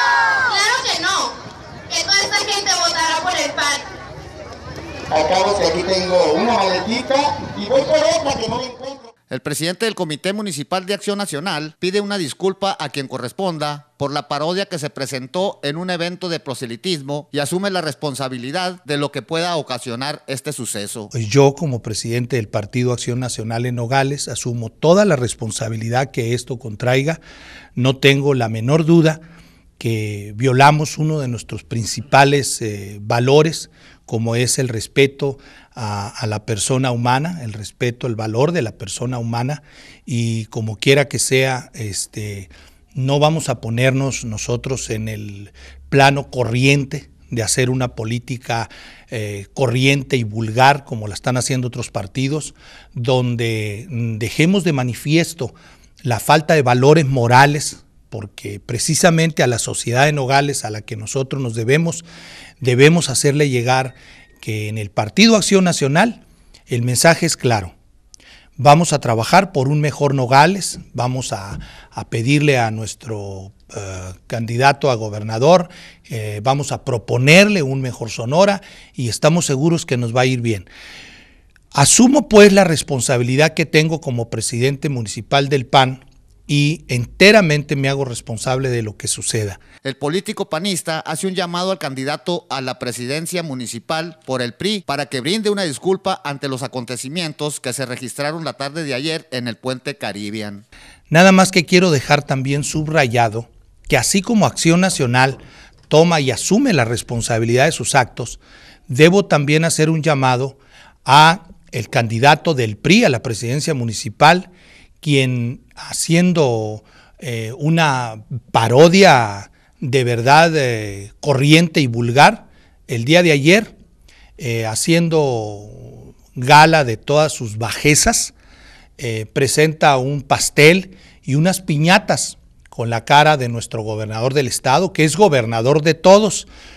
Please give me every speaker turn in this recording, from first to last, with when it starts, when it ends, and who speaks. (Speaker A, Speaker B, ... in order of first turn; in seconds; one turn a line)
Speaker A: 0.5-1.3
Speaker A: 1.9-3.9
Speaker B: 5.1-9.1
Speaker C: 9.3-21.1
Speaker D: 21.1-27.2
Speaker D: 27.8-29.2
Speaker D: 29.8-62.0
Speaker D: 62.6-67.7
Speaker D: 68.6-80.7
Speaker D: 81.7-89.6
Speaker C: 89.8-100.6
Speaker D: 101.1-114.5
Speaker D: 115.0-123.7
Speaker D: 124.4-128.3
Speaker D: 129.0-136.5